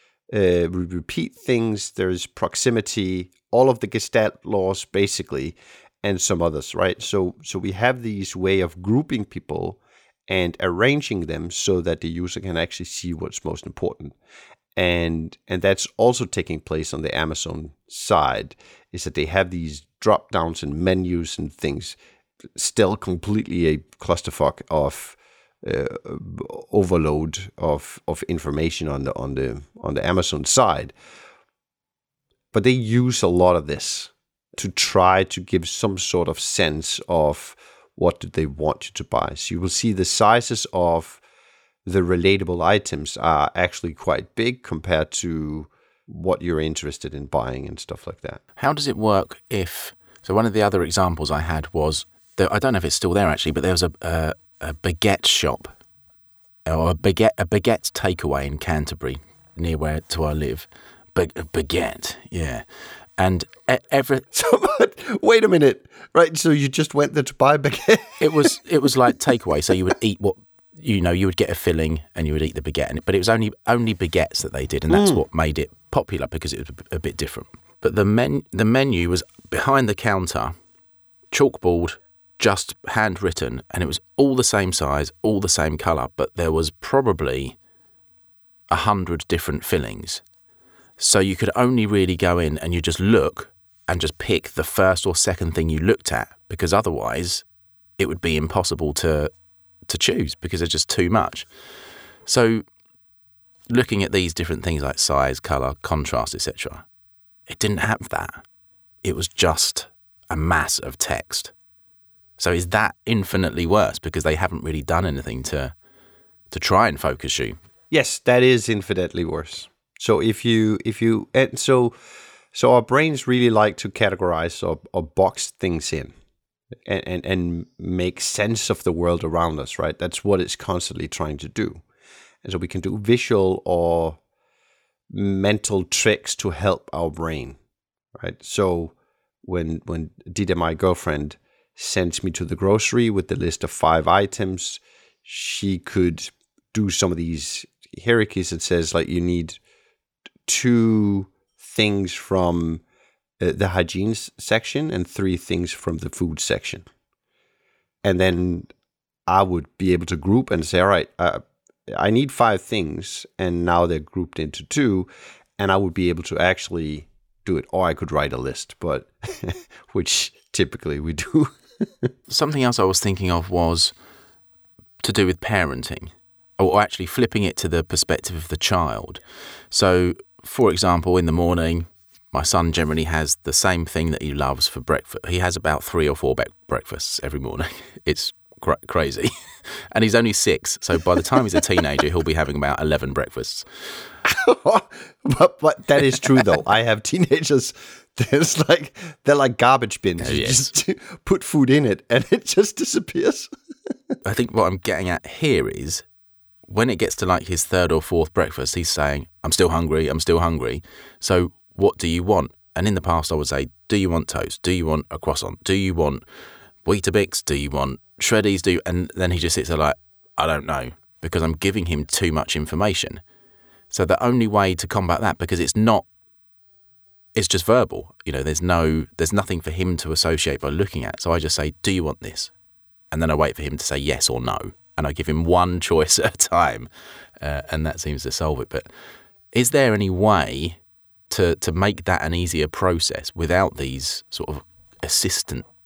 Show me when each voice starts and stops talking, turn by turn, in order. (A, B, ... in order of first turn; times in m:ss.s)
0:00.3-0:14.2 A
0:14.8-0:22.0 A
0:22.6-0:30.9 A
0:32.5-0:41.2 A
0:41.8-0:48.4 A
0:48.6-0:55.8 B
0:56.7-1:02.6 B
1:03.2-1:04.3 B
1:04.3-1:08.6 A
1:08.2-1:20.5 B
1:14.9-1:15.2 A
1:21.3-1:27.6 B
1:28.7-1:30.2 B
1:31.0-1:37.4 B
1:38.0-1:39.3 B
1:39.9-1:41.5 B
1:42.3-1:42.6 B
1:43.7-1:46.8 B
1:47.5-1:48.4 B
1:49.0-1:51.5 B
1:52.4-1:55.7 B
1:56.5-1:57.6 B
1:57.9-2:02.0 A
2:02.5-2:06.1 A
2:06.9-2:11.8 A
2:12.4-2:14.2 A
2:15.1-2:17.6 A
2:18.2-2:29.6 A
2:30.5-2:32.8 A
2:33.4-2:36.9 A
2:38.0-2:38.7 A
2:39.3-2:52.1 A
2:52.3-2:53.9 B
2:55.0-3:13.7 B
3:14.2-3:23.5 A
3:20.2-3:20.7 B
3:24.2-3:26.0 B
3:26.7-3:36.2 B
3:36.8-3:43.2 B
3:43.9-3:46.1 B
3:47.4-3:52.5 B
3:53.1-3:56.9 B
3:57.4-3:58.9 B
3:59.5-4:00.8 B
4:01.3-4:05.7 B